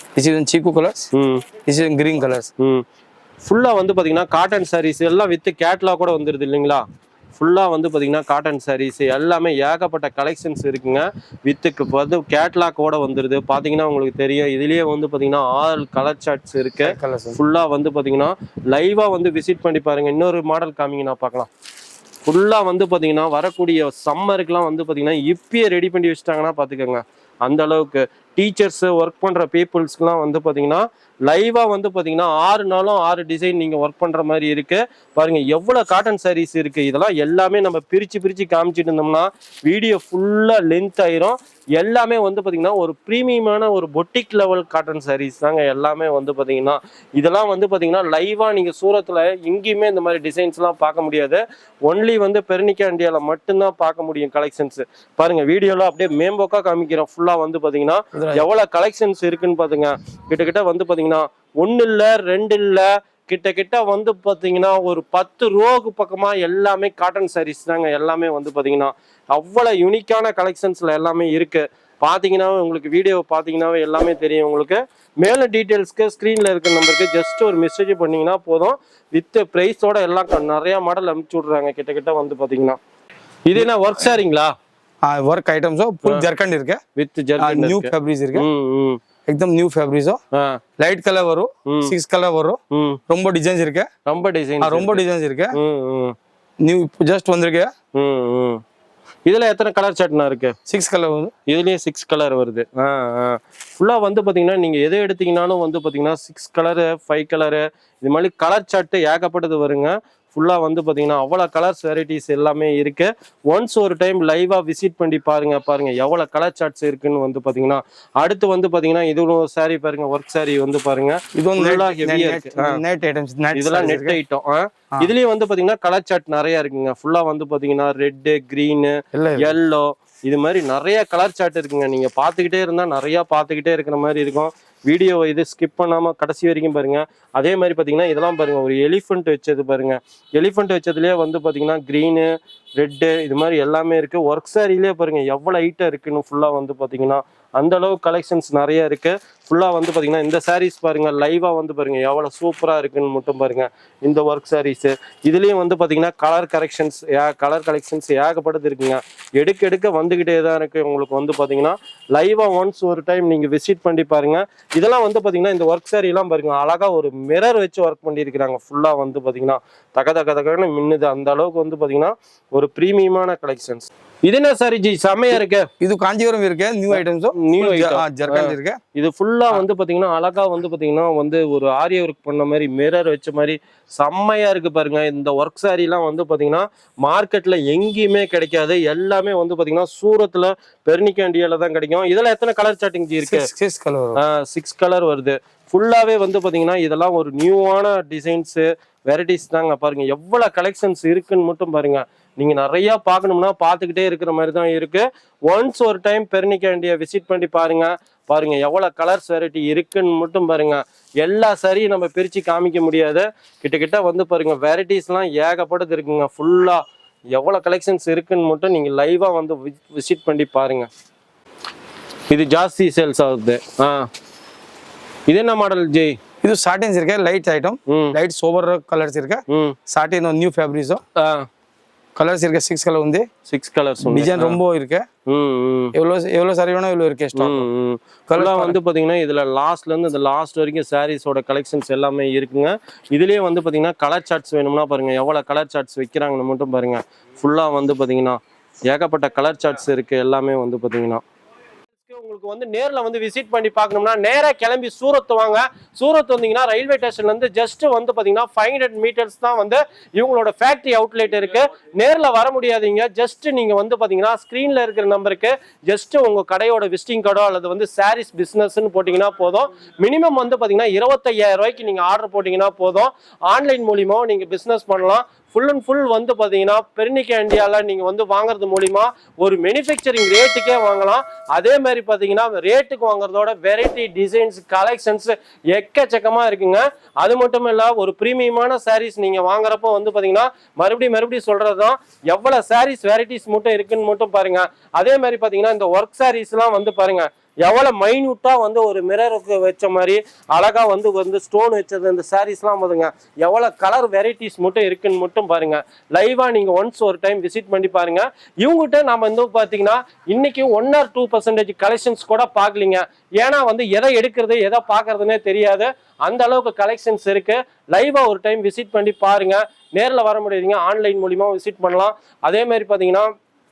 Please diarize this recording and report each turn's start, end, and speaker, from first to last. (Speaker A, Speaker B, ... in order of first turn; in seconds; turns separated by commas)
Speaker A: 0.2-1.1, Speaker B: 1.1-1.5, Speaker A: 1.7-2.5, Speaker B: 2.6-2.8, Speaker B: 3.5-6.8, Speaker B: 7.4-21.5, Speaker A: 16.8-17.4, Speaker B: 22.3-82.8, Speaker A: 58.1-58.5, Speaker B: 83.5-84.5, Speaker A: 83.5-84.1, Speaker A: 85.0-86.8, Speaker B: 87.0-89.0, Speaker A: 87.4-88.5, Speaker A: 89.3-90.2, Speaker B: 90.3-90.6, Speaker A: 90.8-92.6, Speaker B: 91.7-91.9, Speaker B: 92.7-93.0, Speaker A: 93.1-93.9, Speaker B: 94.1-95.0, Speaker A: 94.6-95.5, Speaker B: 95.5-96.2, Speaker A: 96.6-97.7, Speaker B: 98.0-98.6, Speaker B: 99.3-100.5, Speaker A: 100.7-101.3, Speaker B: 101.5-122.8, Speaker A: 121.4-124.2, Speaker B: 123.5-175.7, Speaker A: 129.1-129.5, Speaker A: 175.8-178.8, Speaker B: 176.9-193.5, Speaker A: 193.3-194.2, Speaker B: 194.2-220.9, Speaker B: 222.3-224.1, Speaker B: 225.3-226.2, Speaker A: 226.4-231.0, Speaker B: 227.9-228.2, Speaker B: 229.5-229.8, Speaker B: 231.2-231.5, Speaker A: 232.2-233.3, Speaker B: 233.5-234.6, Speaker A: 234.0-235.1, Speaker B: 235.3-235.9, Speaker A: 235.9-237.7, Speaker B: 237.4-251.2, Speaker A: 238.3-238.8, Speaker B: 252.1-323.3